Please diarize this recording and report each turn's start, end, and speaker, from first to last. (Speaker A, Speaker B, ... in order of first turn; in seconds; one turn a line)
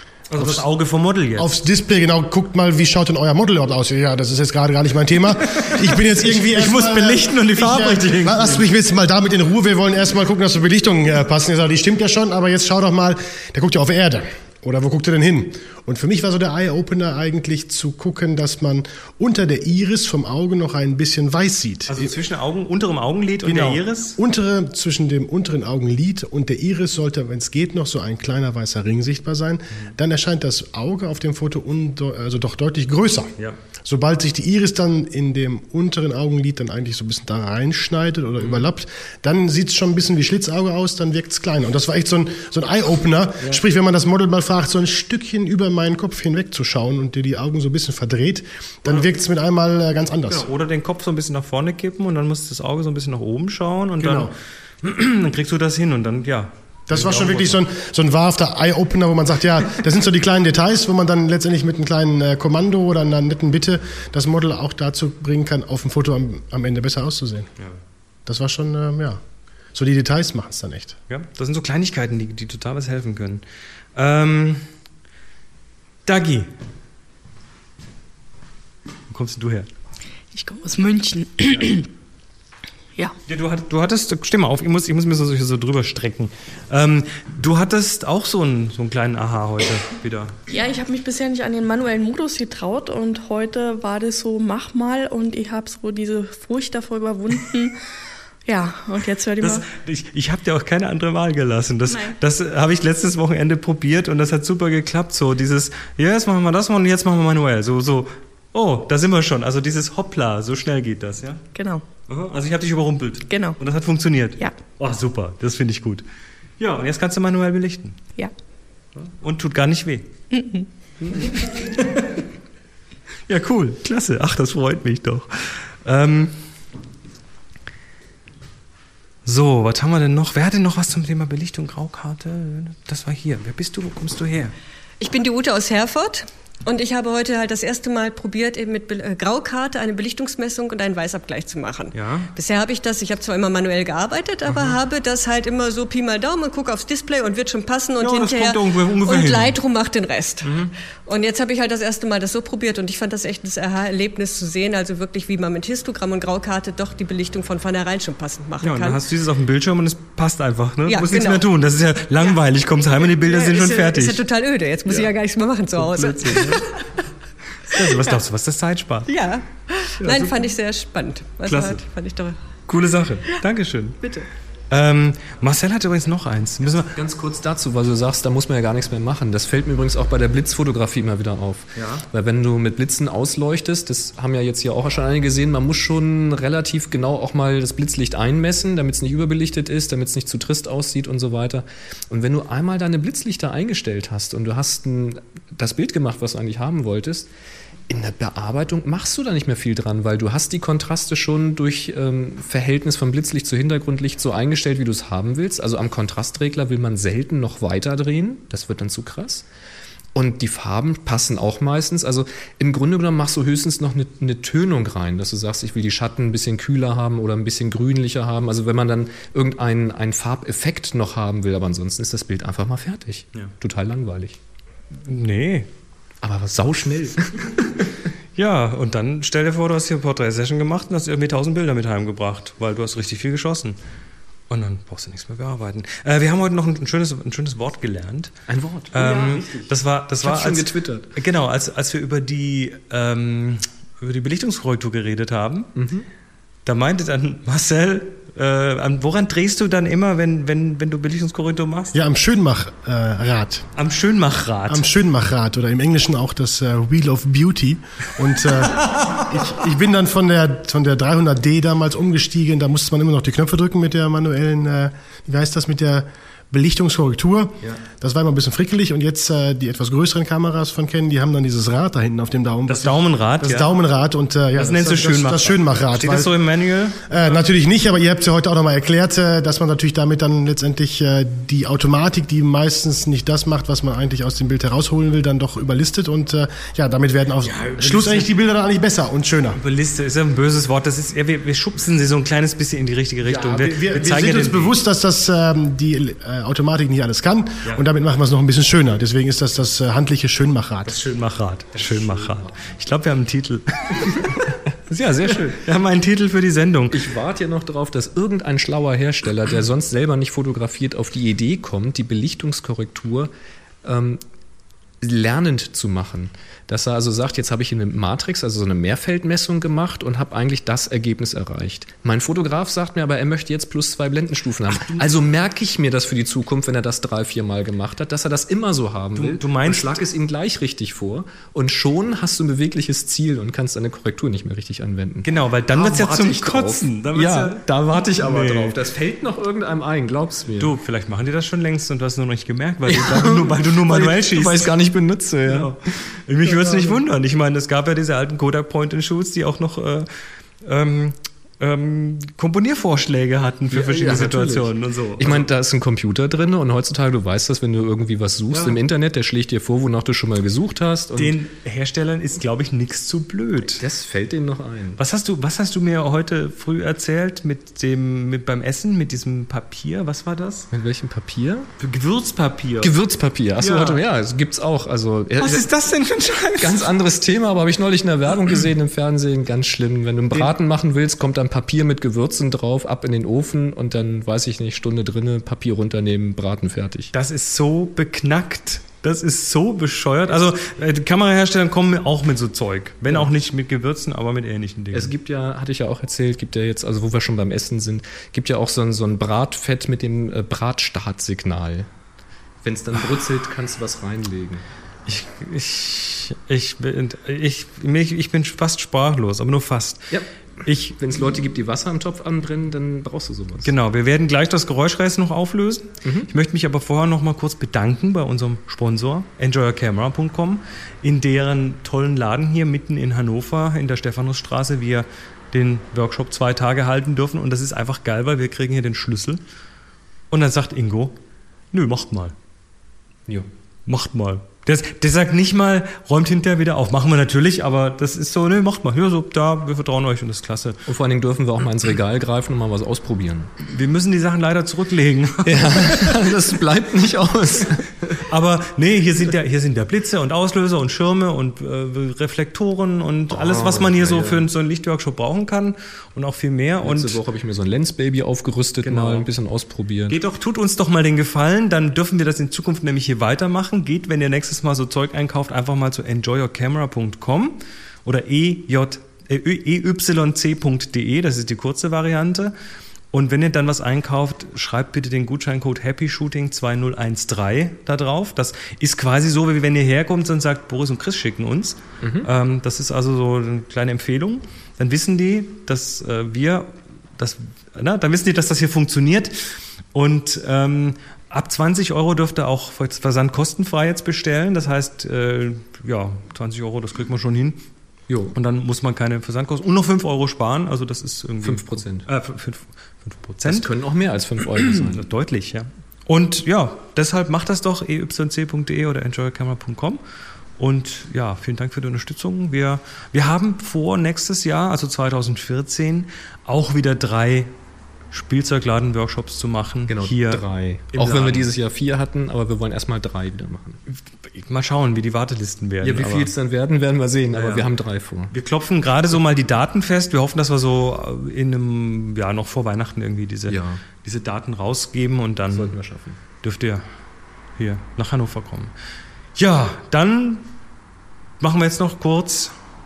Speaker A: 0.3-1.5
Speaker B: 0.3-0.7
Speaker B: 1.4-22.1
Speaker A: 5.6-8.7
Speaker A: 21.9-24.2
Speaker B: 23.4-33.3
Speaker B: 33.8-50.5
Speaker A: 50.3-57.6
Speaker B: 54.0-54.3
Speaker B: 56.9-67.5
Speaker B: 68.2-69.2
Speaker B: 69.7-71.0
Speaker A: 71.1-73.4
Speaker A: 74.0-74.7
Speaker A: 76.0-76.5
Speaker A: 79.1-79.7
Speaker C: 80.3-81.9
Speaker A: 83.3-90.4
Speaker C: 90.5-97.7
Speaker C: 98.5-99.7
Speaker A: 99.4-111.4
Speaker C: 101.9-102.2
Speaker C: 111.5-111.8
Speaker A: 112.1-116.0
Speaker C: 113.3-113.6
Speaker A: 116.6-118.0
Speaker A: 119.0-120.1
Speaker C: 120.3-120.7
Speaker A: 121.0-122.2
Speaker A: 123.3-126.3
Speaker A: 129.2-134.5
Speaker D: 135.0-159.0
Speaker A: 141.9-142.3
Speaker A: 144.5-144.8
Speaker A: 148.0-149.6
Speaker A: 150.4-150.7
Speaker A: 158.6-164.2
Speaker D: 160.8-161.5
Speaker D: 163.1-166.8
Speaker A: 165.8-166.7
Speaker A: 167.7-169.1
Speaker D: 167.7-168.2
Speaker D: 169.1-172.4
Speaker A: 170.0-170.5
Speaker A: 171.4-171.8
Speaker A: 172.7-174.0
Speaker D: 174.0-174.3
Speaker A: 174.7-176.9
Speaker E: 176.9-197.3
Speaker A: 181.8-182.1
Speaker E: 197.9-209.4
Speaker E: 210.1-224.4
Speaker A: 225.0-225.7
Speaker E: 226.2-227.6
Speaker A: 228.3-233.8
Speaker A: 234.5-238.3
Speaker E: 238.5-241.1
Speaker A: 238.9-245.7
Speaker E: 245.7-246.1
Speaker A: 246.7-252.0
Speaker B: 251.9-253.7
Speaker A: 253.8-254.9
Speaker B: 254.7-276.3
Speaker A: 272.7-273.7
Speaker A: 274.5-277.3
Speaker B: 277.1-289.6
Speaker A: 287.4-288.3
Speaker A: 289.6-294.7
Speaker B: 293.2-301.0
Speaker A: 300.9-304.4
Speaker E: 301.7-302.5
Speaker E: 304.9-305.6
Speaker A: 305.3-307.1
Speaker E: 306.9-313.3
Speaker E: 313.8-314.2
Speaker E: 315.0-340.7
Speaker A: 324.7-325.1
Speaker A: 329.1-330.0
Speaker A: 335.2-338.8
Speaker A: 340.6-344.7
Speaker E: 342.9-345.7
Speaker A: 345.4-350.1
Speaker E: 346.4-347.0
Speaker A: 350.6-355.5
Speaker E: 353.7-361.4
Speaker A: 358.5-358.8
Speaker A: 361.1-363.8
Speaker E: 363.7-365.0
Speaker A: 365.0-370.7
Speaker E: 370.7-371.7
Speaker A: 371.8-372.9
Speaker E: 372.8-375.6
Speaker A: 373.6-374.0
Speaker A: 375.4-376.9
Speaker E: 376.6-387.1
Speaker A: 387.1-395.1
Speaker E: 394.9-401.9
Speaker E: 402.6-404.6
Speaker A: 405.1-410.1
Speaker A: 410.6-410.9
Speaker E: 410.8-413.7
Speaker A: 413.6-429.4
Speaker E: 416.0-416.3
Speaker A: 430.3-431.2
Speaker A: 431.7-432.3
Speaker A: 433.9-440.8
Speaker E: 440.9-443.5
Speaker A: 443.6-446.3
Speaker E: 445.4-448.2
Speaker A: 448.1-457.2
Speaker E: 453.3-454.4
Speaker E: 456.8-460.1
Speaker A: 458.8-459.3
Speaker A: 460.1-472.5
Speaker A: 473.1-497.6
Speaker E: 482.0-482.3
Speaker E: 498.1-498.3
Speaker A: 498.3-503.7
Speaker E: 501.4-502.1
Speaker E: 503.4-505.0
Speaker A: 504.6-510.0
Speaker A: 510.6-517.5
Speaker A: 518.1-521.5
Speaker E: 519.9-523.8
Speaker A: 523.9-526.3
Speaker E: 525.8-528.3
Speaker A: 527.3-527.7
Speaker A: 528.3-535.7
Speaker E: 533.5-533.8
Speaker E: 535.5-536.2
Speaker A: 536.4-536.9
Speaker A: 537.6-538.7
Speaker A: 539.4-540.5
Speaker A: 541.4-542.5